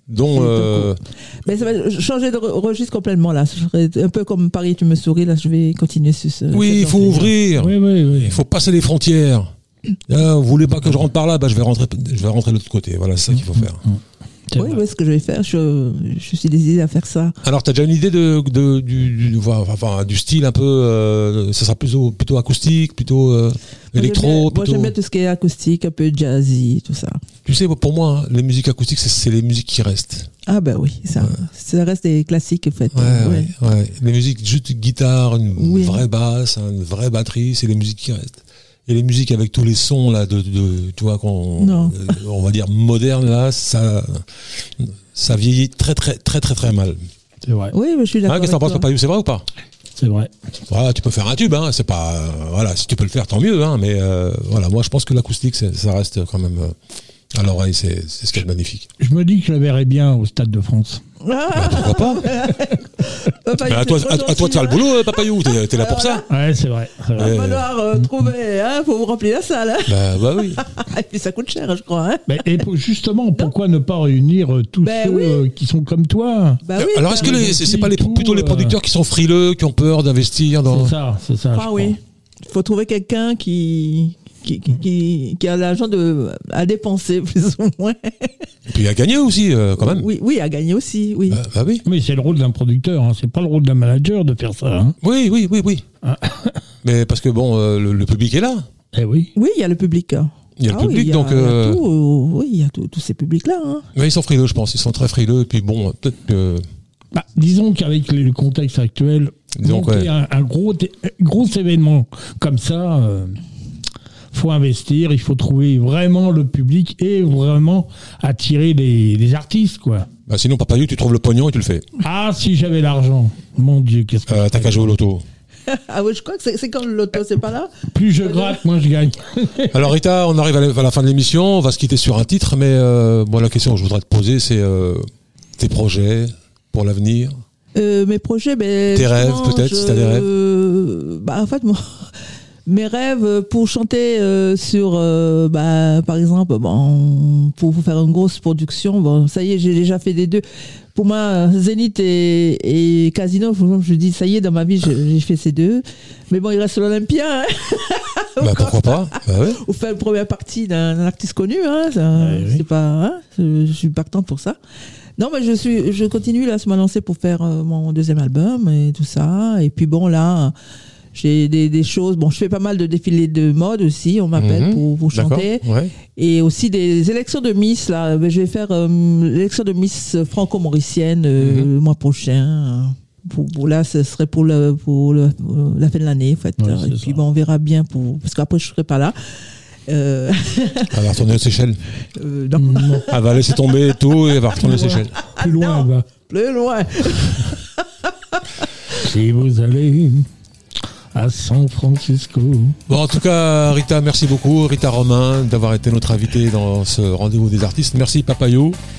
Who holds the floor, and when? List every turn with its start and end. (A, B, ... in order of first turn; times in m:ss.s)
0:00.1-0:01.0 A
0:00.3-0:07.3 B
0:06.5-0:09.5 A
0:07.6-0:08.4 C
0:10.1-0:13.8 A
0:13.6-0:14.8 C
0:14.6-0:17.4 B
0:17.4-0:24.9 A
0:23.9-0:27.2 B
0:27.4-0:30.3 A
0:30.5-0:33.5 B
0:32.9-0:47.0 A
0:35.6-0:36.0 B
0:41.6-0:42.2 B
0:47.4-0:47.7 C
0:47.7-0:48.9 B
0:48.3-0:49.5 A
0:50.0-0:50.3 C
0:50.7-0:56.8 A
0:57.3-0:58.9 A
0:59.0-1:01.0 C
1:01.2-1:06.3 B
1:01.5-1:02.3 A
1:03.6-1:06.2 A
1:06.3-1:07.4 C
1:07.2-1:07.6 A
1:07.2-1:12.4 B
1:09.9-1:10.6 A
1:12.3-1:16.6 C
1:14.8-1:15.4 B
1:16.6-1:17.5 B
1:16.8-1:21.0 A
1:17.2-1:18.8 C
1:20.7-1:22.0 C
1:21.6-1:28.4 B
1:28.7-1:30.1 A
1:29.8-1:31.4 B
1:31.3-1:31.8 A
1:31.9-1:35.0 C
1:35.0-1:35.9 A
1:36.0-1:36.6 C
1:36.8-1:38.7 A
1:38.9-1:39.3 C
1:39.4-1:43.9 B
1:40.6-1:41.8 A
1:44.0-1:46.6 A
1:47.1-1:53.4 C
1:49.5-1:50.1 A
1:54.3-2:00.1 C
2:00.3-2:01.8 A
2:02.0-2:04.9 C
2:04.3-2:05.2 A
2:05.7-2:08.6 B
2:07.9-2:09.7 C
2:09.7-2:15.1 A
2:15.6-2:17.4 A
2:17.8-2:30.4 B
2:18.9-2:20.3 A
2:30.9-2:44.6 B
2:38.4-2:39.6 A
2:42.2-2:42.6 C
2:45.2-2:50.5 B
2:51.1-2:55.6 B
2:54.4-2:55.9 A
2:56.2-3:11.0 B
3:01.4-3:01.7 A
3:06.6-3:07.2 C
3:10.9-3:11.8 A
3:12.0-3:13.7 B
3:12.6-3:13.1 C
3:13.1-3:15.1 A
3:14.6-3:19.1 B
3:14.6-3:16.0 C
3:19.0-3:20.3 C
3:21.1-3:22.8 C
3:22.9-3:28.8 A